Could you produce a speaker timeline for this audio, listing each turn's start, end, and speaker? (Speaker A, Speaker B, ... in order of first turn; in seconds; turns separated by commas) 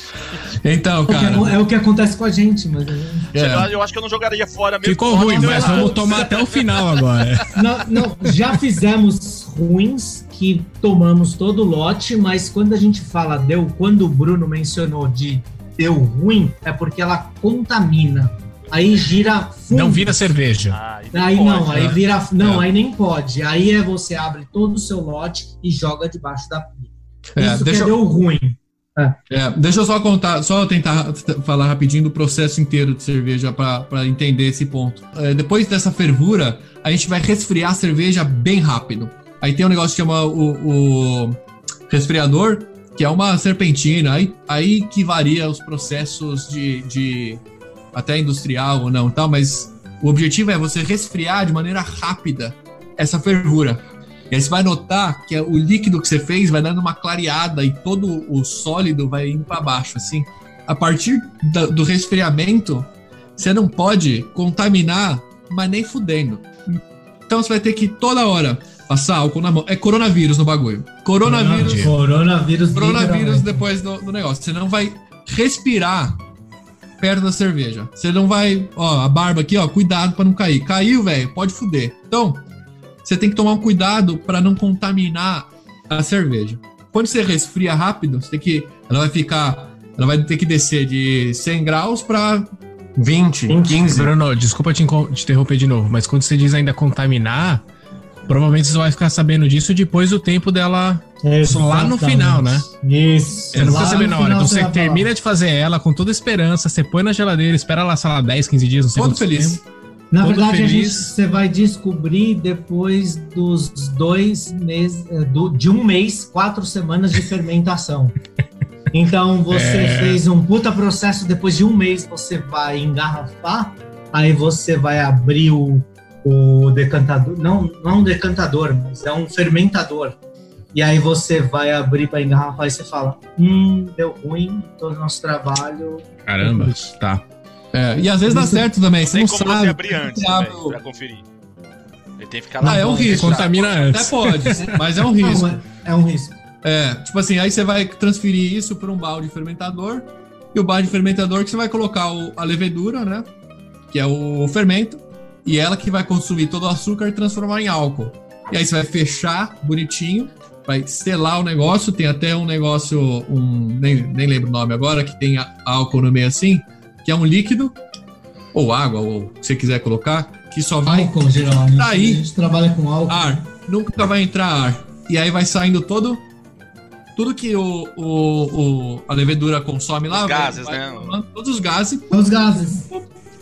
Speaker A: 0.5-1.6, Speaker B: 1.1-3.3, Speaker A: 3.3-3.7, Speaker C: 3.3-6.9, Speaker D: 4.8-8.3, Speaker B: 5.4-6.2, Speaker B: 7.5-20.3, Speaker D: 19.7-20.8, Speaker C: 20.7-21.9, Speaker B: 21.1-29.2, Speaker A: 21.7-22.7, Speaker A: 27.4-28.0, Speaker A: 29.3-47.4, Speaker A: 47.9-72.0, Speaker B: 71.2-73.7, Speaker D: 71.6-71.9, Speaker A: 72.7-76.2, Speaker A: 77.0-82.5, Speaker A: 83.0-94.1, Speaker B: 93.5-94.0, Speaker D: 93.9-97.6, Speaker D: 98.3-102.7, Speaker B: 101.2-105.0, Speaker A: 103.5-104.2, Speaker D: 103.5-109.6, Speaker A: 109.0-109.6, Speaker B: 110.1-118.2, Speaker D: 110.2-111.1, Speaker B: 118.9-130.2, Speaker D: 119.5-120.2, Speaker B: 130.7-136.8, Speaker D: 136.3-137.2, Speaker A: 137.7-140.8, Speaker B: 138.3-138.7, Speaker C: 139.0-141.3, Speaker C: 142.2-143.9, Speaker B: 142.6-143.2, Speaker A: 142.6-145.6, Speaker D: 143.1-144.7, Speaker B: 144.6-146.4, Speaker A: 146.6-153.3, Speaker A: 153.9-167.8, Speaker A: 168.5-172.2, Speaker B: 170.8-173.4, Speaker A: 173.1-176.3, Speaker A: 177.2-183.0, Speaker C: 180.1-181.2, Speaker B: 182.1-182.9